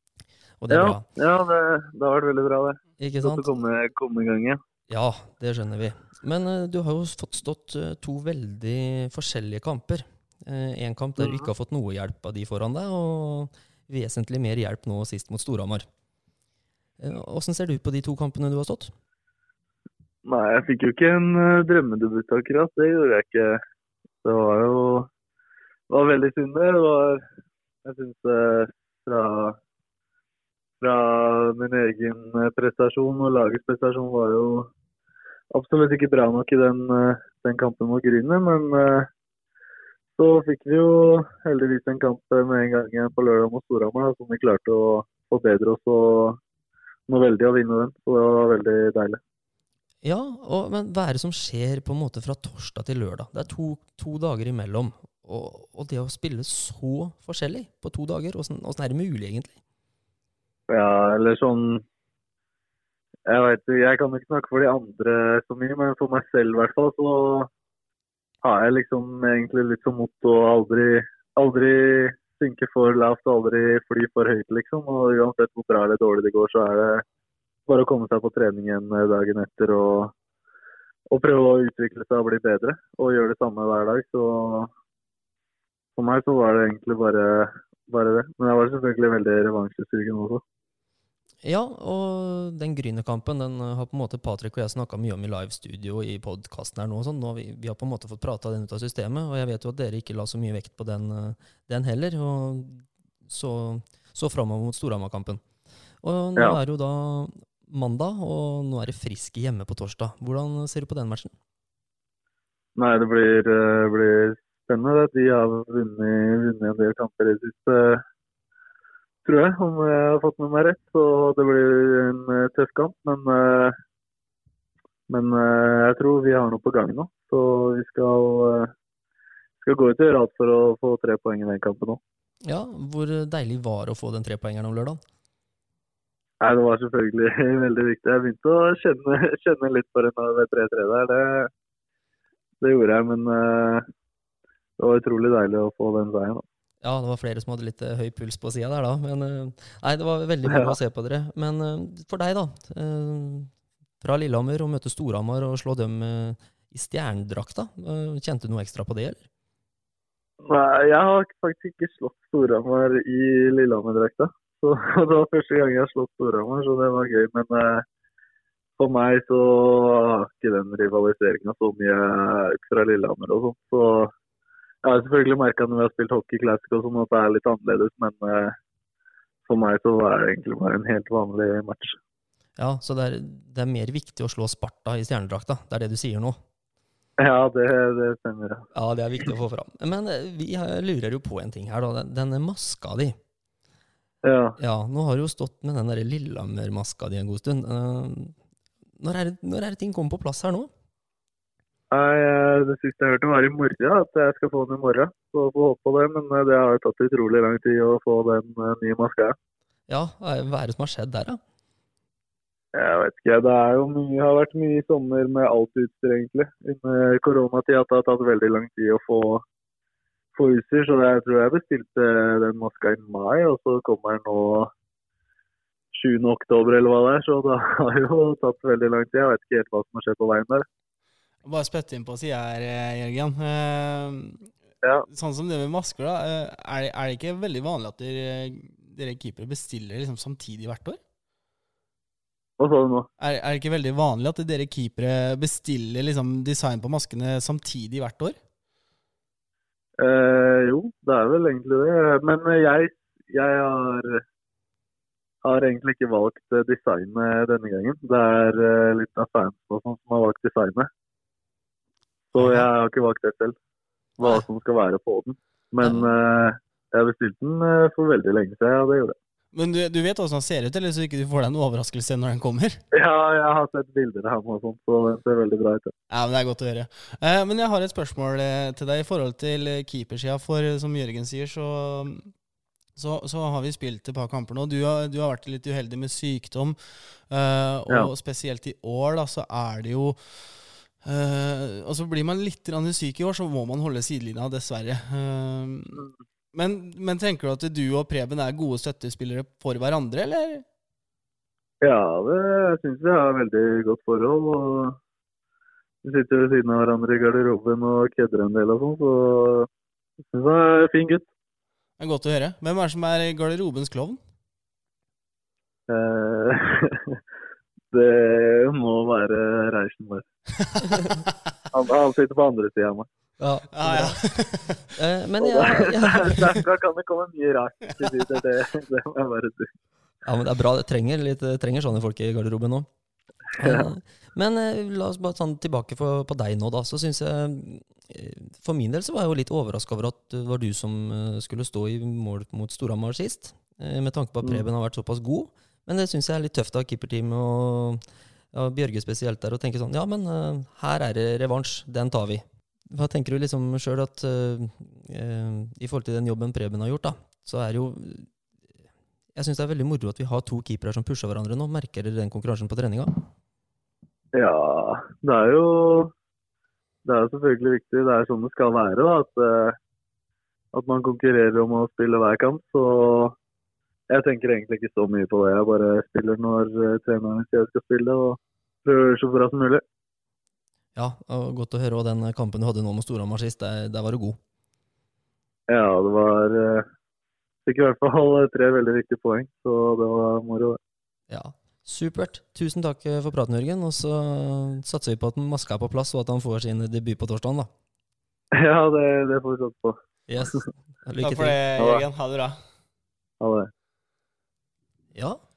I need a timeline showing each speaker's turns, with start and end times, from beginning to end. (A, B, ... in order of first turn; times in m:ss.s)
0:00.6-0:01.0 A
0:00.7-0:04.6 B
0:03.0-0:03.4 A
0:04.9-0:15.9 A
0:11.2-0:11.4 B
0:17.0-0:18.9 A
0:20.3-0:23.6 B
0:24.2-0:25.1 B
0:25.9-0:27.2 B
0:27.8-0:29.6 B
0:30.8-0:34.7 B
0:35.5-0:39.1 B
0:40.2-0:46.4 B
0:47.1-0:49.2 B
0:50.0-0:59.6 A
1:00.7-1:01.8 B
1:03.3-1:07.5 B
1:08.4-1:17.0 B
1:17.7-1:20.1 B
1:21.1-1:24.7 B
1:26.0-1:30.4 B
1:31.4-1:45.4 A
1:46.0-1:51.3 A
1:52.8-1:58.0 B
1:59.2-2:03.8 B
2:05.1-2:08.7 B
2:09.6-2:12.0 B
2:12.4-2:15.0 A
2:16.4-2:21.5 B
2:22.6-2:23.9 B
2:24.8-2:26.4 B
2:26.8-2:39.2 A
2:30.5-2:30.8 B
2:40.4-2:47.8 B
2:48.8-2:54.1 B
2:54.8-2:58.6 B
2:59.5-3:02.0 B
3:02.6-3:06.4 A
3:07.2-3:08.7 B
3:08.7-3:13.2 A
3:14.2-3:14.6 B
3:14.6-3:18.4 A
3:19.0-3:20.7 A
3:21.9-3:29.4 B
3:29.9-3:31.4 A
3:32.7-3:39.4 B
3:40.4-3:44.7 B
3:45.9-3:50.7 B
3:51.4-3:54.5 C
3:55.1-4:01.0 C
4:02.6-4:03.1 B
4:03.2-4:08.4 C
4:10.0-4:14.2 B
4:15.4-4:20.9 B
4:22.3-4:23.6 B
4:24.2-4:29.2 B
4:25.8-4:26.1 A
4:29.5-4:32.8 C
4:32.9-4:35.9 B
4:36.1-4:42.3 C
4:43.0-5:00.6 C
5:01.8-5:05.0 B
5:06.0-5:09.7 B
5:10.3-5:11.3 B
5:12.0-5:14.2 C
5:15.9-5:17.2 B
5:17.9-5:20.3 B
5:21.7-5:23.1 B
5:23.4-5:24.2 A
5:23.7-5:24.9 C
5:25.0-5:26.6 A
5:25.4-5:29.7 B
5:30.2-5:32.9 A
5:33.6-5:48.0 A
5:33.6-5:33.8 B
5:48.5-5:58.3 A
5:59.4-6:03.2 A
6:04.3-6:06.1 B
6:07.0-6:09.8 B
6:10.7-6:13.4 B
6:14.1-6:19.8 B
6:21.0-6:24.4 A
6:25.7-6:26.9 B
6:27.7-6:30.8 B
6:31.3-6:37.7 A
6:38.5-6:40.7 B
6:40.3-6:41.6 A
6:41.2-6:42.6 C
6:41.8-6:42.0 B
6:43.4-6:43.7 B
6:45.2-6:45.4 A